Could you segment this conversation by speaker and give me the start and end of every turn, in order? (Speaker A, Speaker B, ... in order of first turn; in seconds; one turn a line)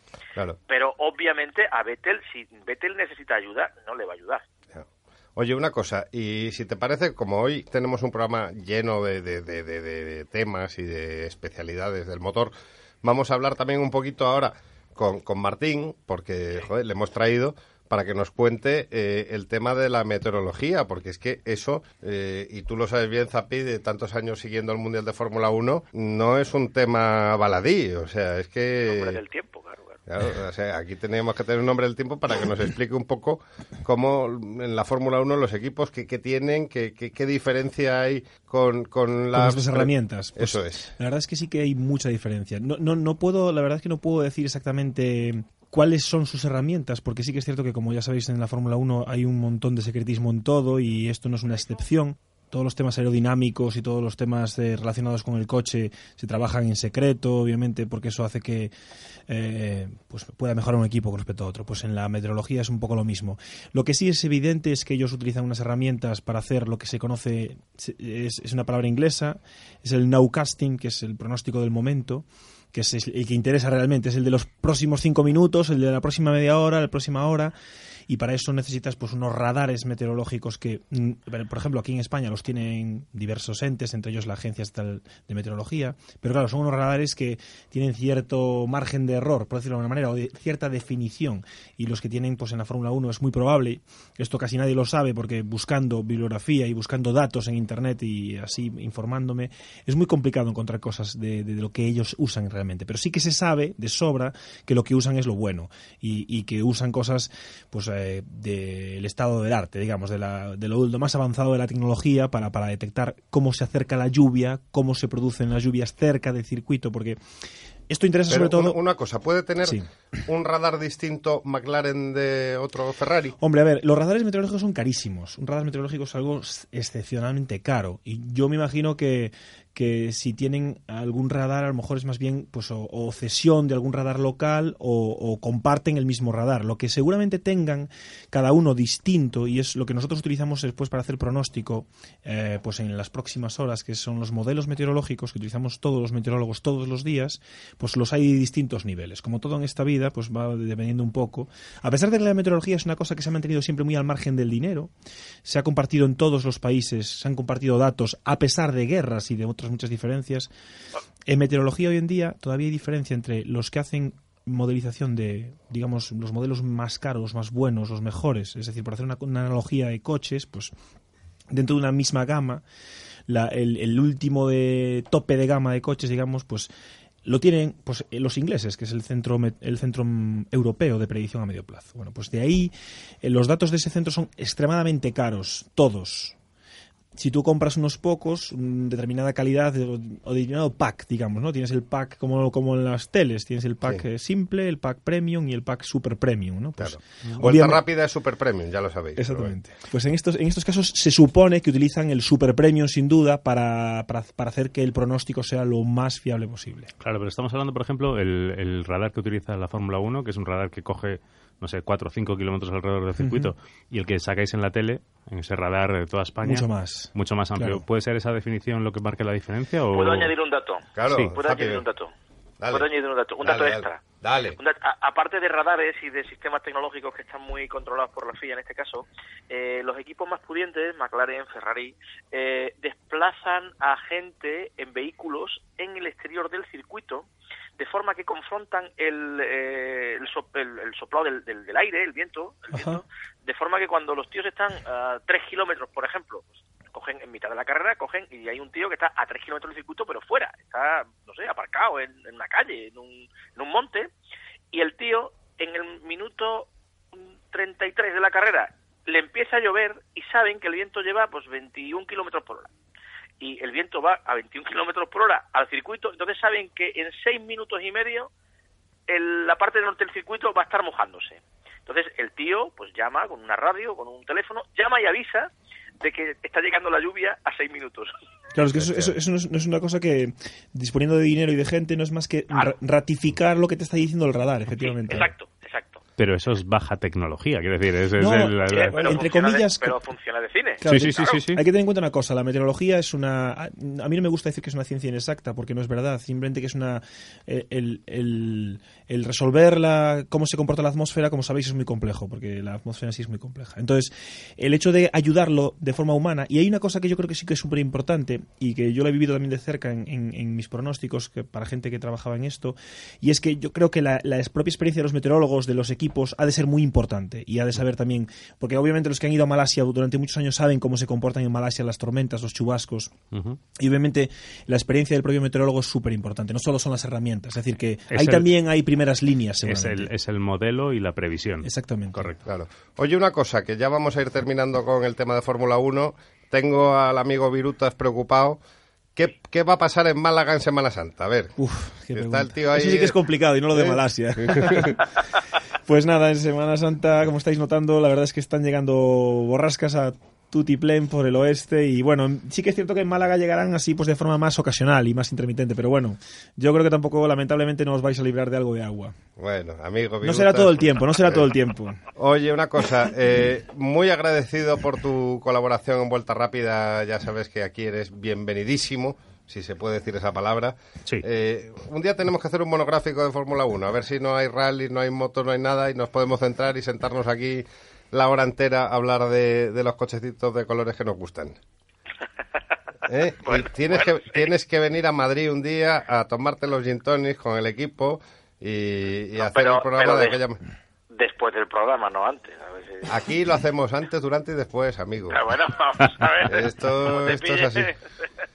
Speaker A: 0.7-4.4
Speaker B: 4.7-29.2
Speaker A: 28.9-30.0
Speaker B: 30.1-40.9
Speaker C: 39.3-58.7
Speaker C: 59.3-77.5
Speaker C: 78.1-117.2
Speaker C: 117.9-118.8
Speaker B: 118.3-123.4
Speaker C: 123.4-154.9
Speaker C: 155.4-160.5
Speaker C: 161.3-170.7
Speaker C: 171.5-172.6
Speaker C: 173.3-176.7
Speaker C: 177.2-186.4
Speaker C: 187.2-197.8
Speaker B: 196.8-199.6
Speaker C: 199.2-206.9
Speaker D: 207.0-220.3
Speaker C: 213.2-213.5
Speaker C: 216.4-217.8
Speaker A: 219.9-222.1
Speaker B: 221.0-221.8
Speaker B: 222.6-222.9
Speaker A: 222.7-224.0
Speaker B: 223.4-224.6
Speaker A: 224.6-237.3
Speaker A: 237.8-254.1
Speaker C: 242.7-243.0
Speaker A: 254.7-262.7
Speaker A: 263.4-268.3
Speaker A: 269.1-275.5
Speaker A: 276.0-278.1
Speaker C: 278.6-285.3
Speaker A: 284.8-286.0
Speaker D: 286.2-289.1
Speaker C: 288.2-289.9
Speaker A: 288.7-291.4
Speaker D: 290.8-291.6
Speaker C: 290.8-323.1
Speaker D: 323.3-323.6
Speaker C: 323.8-330.1
Speaker D: 328.1-328.5
Speaker D: 329.6-332.4
Speaker C: 331.6-332.2
Speaker B: 332.4-338.6
Speaker B: 339.2-341.6
Speaker C: 341.6-345.1
Speaker B: 342.1-343.2
Speaker B: 343.7-344.9
Speaker C: 345.9-359.1
Speaker B: 359.4-361.4
Speaker C: 360.2-362.0
Speaker B: 362.1-381.6
Speaker B: 383.1-390.6
Speaker A: 383.4-384.4
Speaker A: 389.4-390.4
Speaker A: 391.1-393.2
Speaker B: 393.1-395.4
Speaker A: 395.3-398.0
Speaker B: 396.5-397.9